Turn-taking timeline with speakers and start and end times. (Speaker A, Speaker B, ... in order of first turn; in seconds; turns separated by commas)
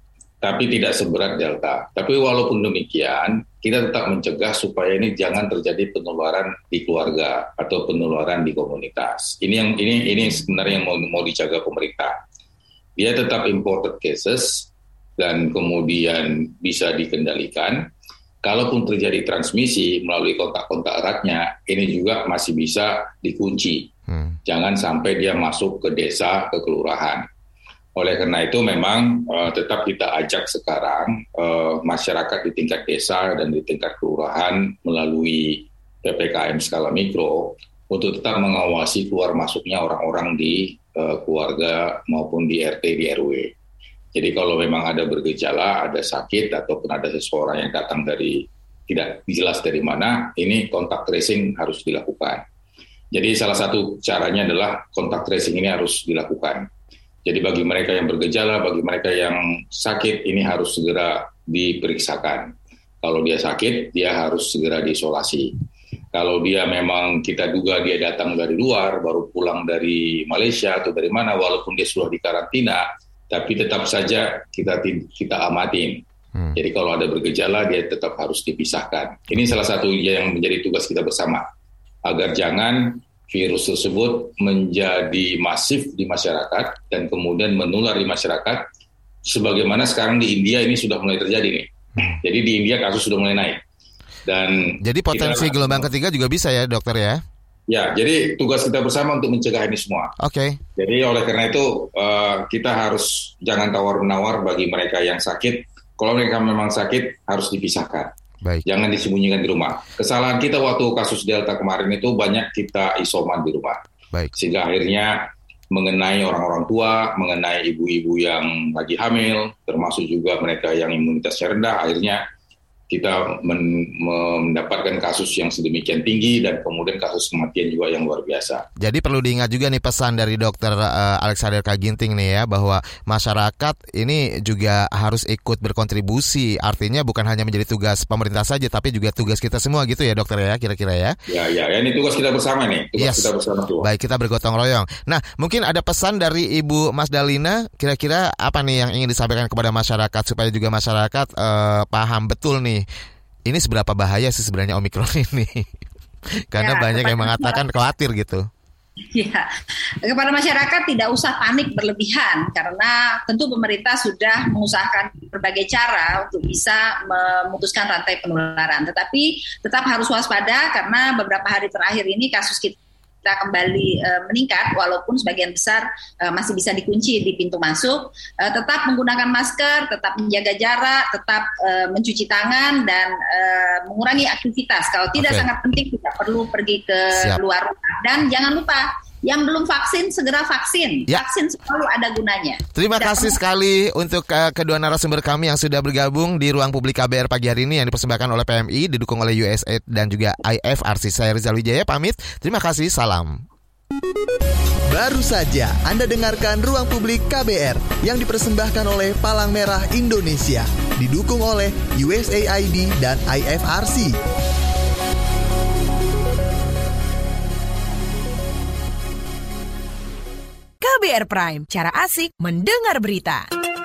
Speaker A: 0.4-12.2, Speaker A: 13.0-17.9, Speaker A: 18.4-23.9, Speaker B: 24.1-24.4, Speaker A: 24.4-27.2, Speaker A: 27.9-43.5, Speaker A: 44.1-52.4, Speaker A: 53.1-56.7, Speaker A: 57.2-65.5, Speaker A: 66.1-76.0, Speaker A: 76.5-81.5, Speaker A: 82.0-88.6, Speaker A: 89.2-91.7, Speaker A: 92.2-93.6, Speaker A: 94.2-95.9, Speaker B: 94.8-97.2, Speaker A: 97.7-100.1, Speaker B: 100.2-100.6, Speaker A: 100.8-108.1, Speaker A: 108.7-113.8, Speaker A: 114.4-122.2, Speaker A: 122.9-128.7, Speaker B: 128.8-141.2, Speaker A: 141.3-143.9, Speaker B: 143.0-143.3, Speaker B: 143.8-152.8, Speaker B: 153.5-155.7, Speaker B: 156.5-158.4, Speaker C: 156.6-157.6, Speaker C: 159.1-159.5, Speaker C: 160.0-193.4, Speaker B: 185.2-185.4, Speaker B: 187.1-187.4, Speaker B: 192.7-203.4, Speaker D: 204.9-214.2, Speaker E: 220.8-223.5